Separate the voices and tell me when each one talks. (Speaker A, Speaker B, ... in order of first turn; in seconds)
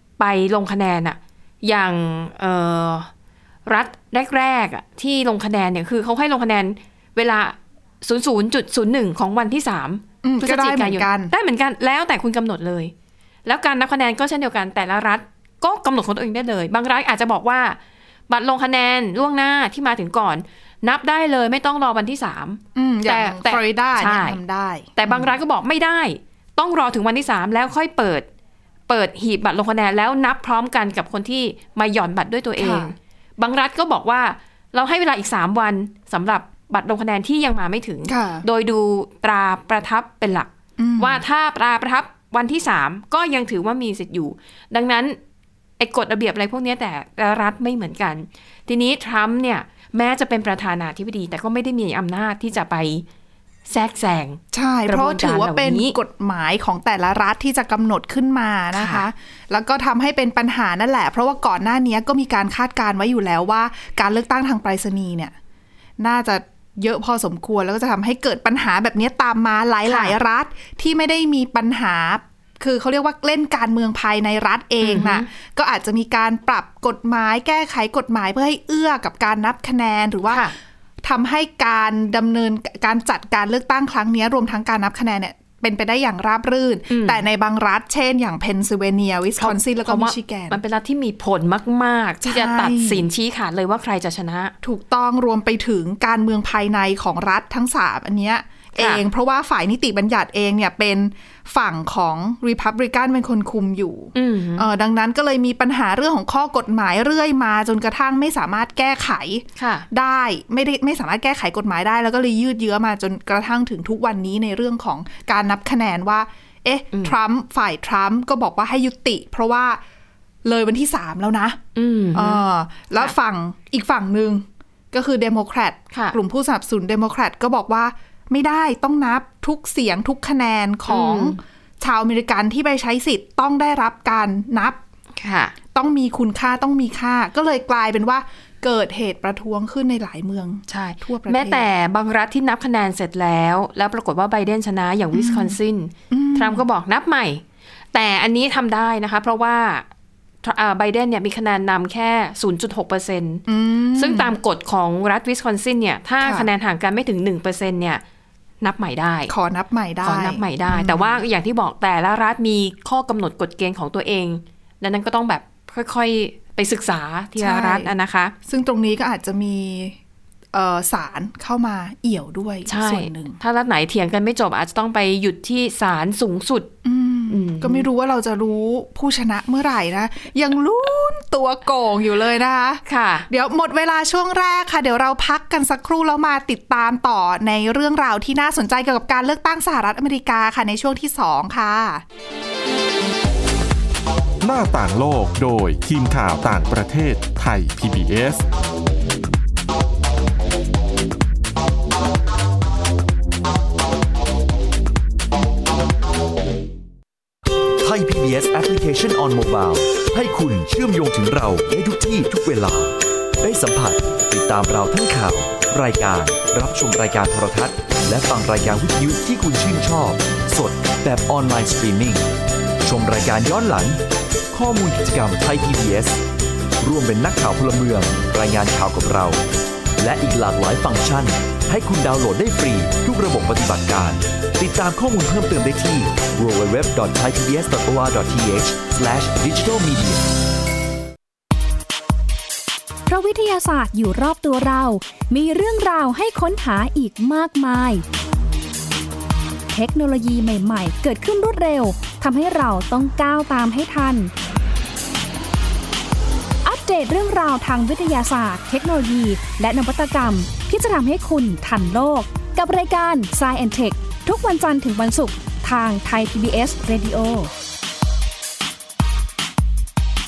Speaker A: 0.2-3.1, 3.6-12.9, 13.4-17.8, 18.3-24.4, 24.9-28.3, 28.9-45.2, 45.8-53.0, 53.7-56.0, 58.7-59.1, 69.8-70.2, 74.8-75.3, 80.3-80.5, 86.9-87.2, 89.4-94.5, 98.8-99.0, 104.1-104.7, 109.6-109.9, 121.7-122.4, 125.9-126.2, 130.9-131.4, 135.2-135.5, 140.7-149.9, 150.4-153.4, 153.9-158.0, 158.6-159.3, 160.0-168.3, 172.7-176.7, 177.3-177.8, 182.8-183.3
Speaker B: 10.2-11.3, 22.7-25.3, 32.6-32.9, 38.1-38.5, 40.8-41.2, 54.5-65.3, 66.0-80.5, 81.0-90.6, 92.2-93.0, 94.6-119.8, 120.4-121.6, 122.1-134.8, 135.7-141.7, 145.1-145.6, 146.1-146.6, 153.5-154.3, 156.2-156.5, 159.3-161.2, 167.4-167.9, 168.4-170.0, 170.5-173.4, 176.8-192.0
Speaker C: 194.4-198.4
Speaker D: 207.8-222.2, 222.8-224.0, 224.5-226.2, 226.8-229.4, 230.0-240.3
Speaker E: 243.1-248.0, 249.7-254.3, 256.6-267.5